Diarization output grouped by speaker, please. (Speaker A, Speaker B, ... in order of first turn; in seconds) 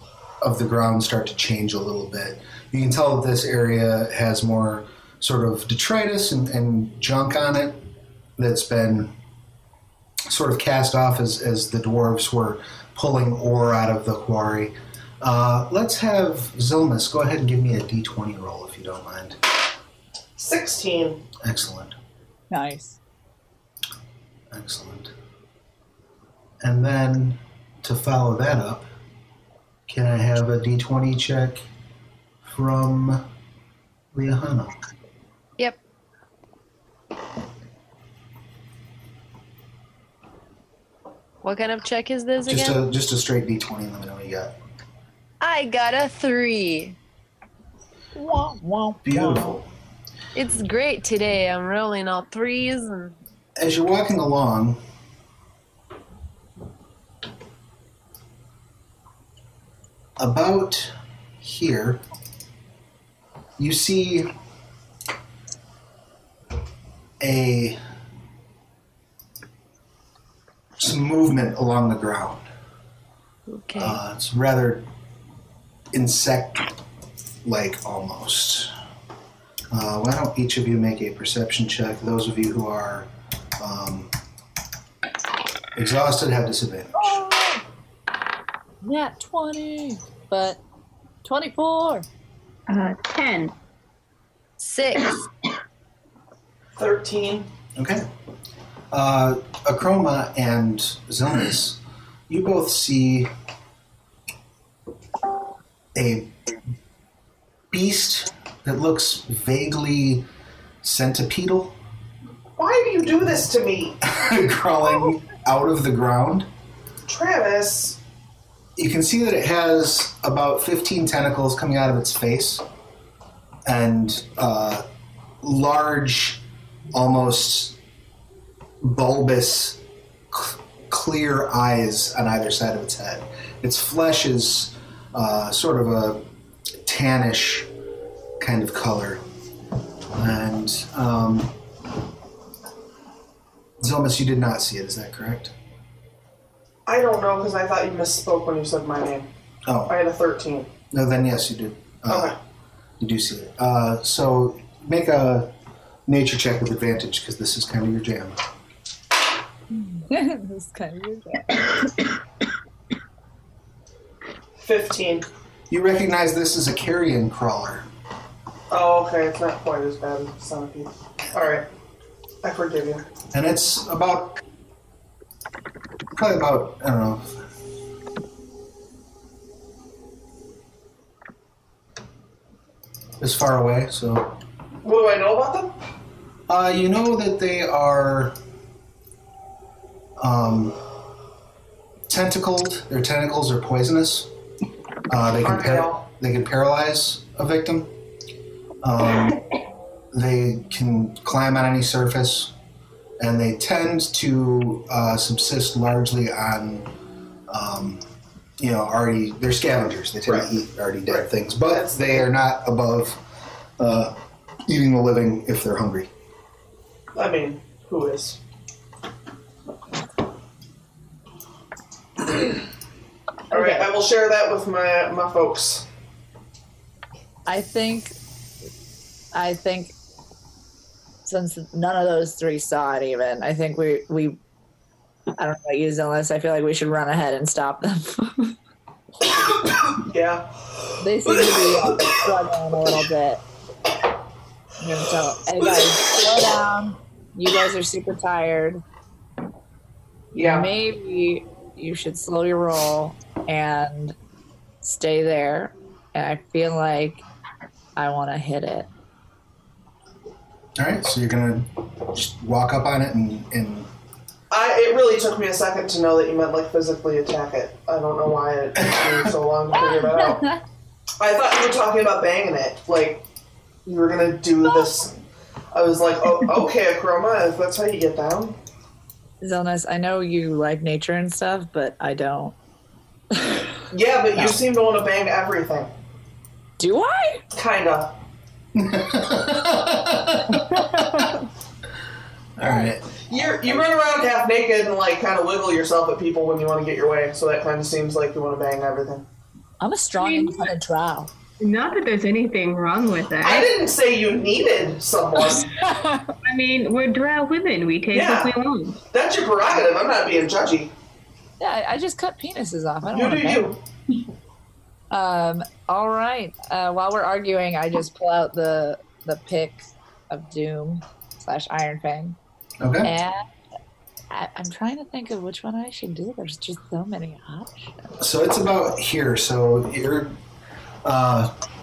Speaker A: 0.4-7.8, 8.4-9.1, 10.3-19.4, 21.4-21.9, 24.5-25.1, 26.6-28.8, 29.9-31.6, 32.4-33.2, 34.1-34.8, 42.5-44.5, 49.0-49.7, 53.6-54.8, 60.2-62.0, 63.6-64.3, 67.2-67.8, 70.8-72.4, 73.8-74.8, 75.9-76.7, 77.4-78.7, 79.7-84.1, 85.7-87.2, 97.8-98.0, 98.9-103.3, 105.9-106.3, 107.7-110.2, 110.8-111.8, 114.0-116.5, 118.8-122.6, 123.7-124.8, 125.4-127.8, 128.8-136.2, 136.8-137.7, 138.4-139.2, 140.1-141.5, 143.8-145.5, 149.7-149.9, 150.9-152.3, 153.0-155.5, 156.1-158.4, 165.7-167.9, 173.3-174.4, 176.1-177.4, 183.2-184.3, 186.5-188.4, 190.2-190.8, 192.1-194.3, 195.1-197.9, 198.8-199.4, 200.1-202.5, 203.2-206.9, 207.5-208.0, 208.6-213.2, 213.8-216.1, 260.8-263.9, 288.7-291.3, 292.6-293.4, 322.8-323.1, 328.2-330.4, 331.0-331.5
Speaker B: 20.4-21.3, 96.8-97.5, 112.6-114.0, 117.1-118.0, 146.8-149.3, 149.9-150.7, 152.1-152.4, 164.6-165.3, 168.7-171.7, 172.4-173.1, 184.8-185.8, 195.4-196.0, 211.1-212.2, 217.1-218.4, 222.3-222.5, 223.5-225.9, 240.0-240.5, 250.3-250.7, 264.5-270.5, 271.2-273.2, 273.8-275.1, 275.7-278.6, 283.9-285.9, 287.5-288.2, 293.2-299.2, 303.4-305.7, 308.1-308.5, 309.1-310.9, 313.1-313.8
Speaker C: 22.5-23.0, 48.1-49.6, 86.9-87.6, 88.8-90.6, 91.2-92.1, 159.7-161.8, 223.5-223.8, 227.5-228.2, 229.3-229.9, 231.2-234.4, 235.3-238.5, 241.0-243.4, 244.8-248.8, 250.3-254.2, 254.8-257.2, 257.9-258.9, 269.7-270.6, 279.4-282.6, 283.3-283.7, 286.8-287.4, 290.5-291.5, 299.8-301.3, 305.5-306.3, 311.6-313.7, 315.1-322.4, 323.0-323.4, 324.3-328.2
Speaker D: 41.4-42.8, 45.4-47.0, 50.3-53.2, 73.5-74.0, 94.6-95.2
Speaker E: 92.7-93.5, 301.6-303.7, 306.4-309.0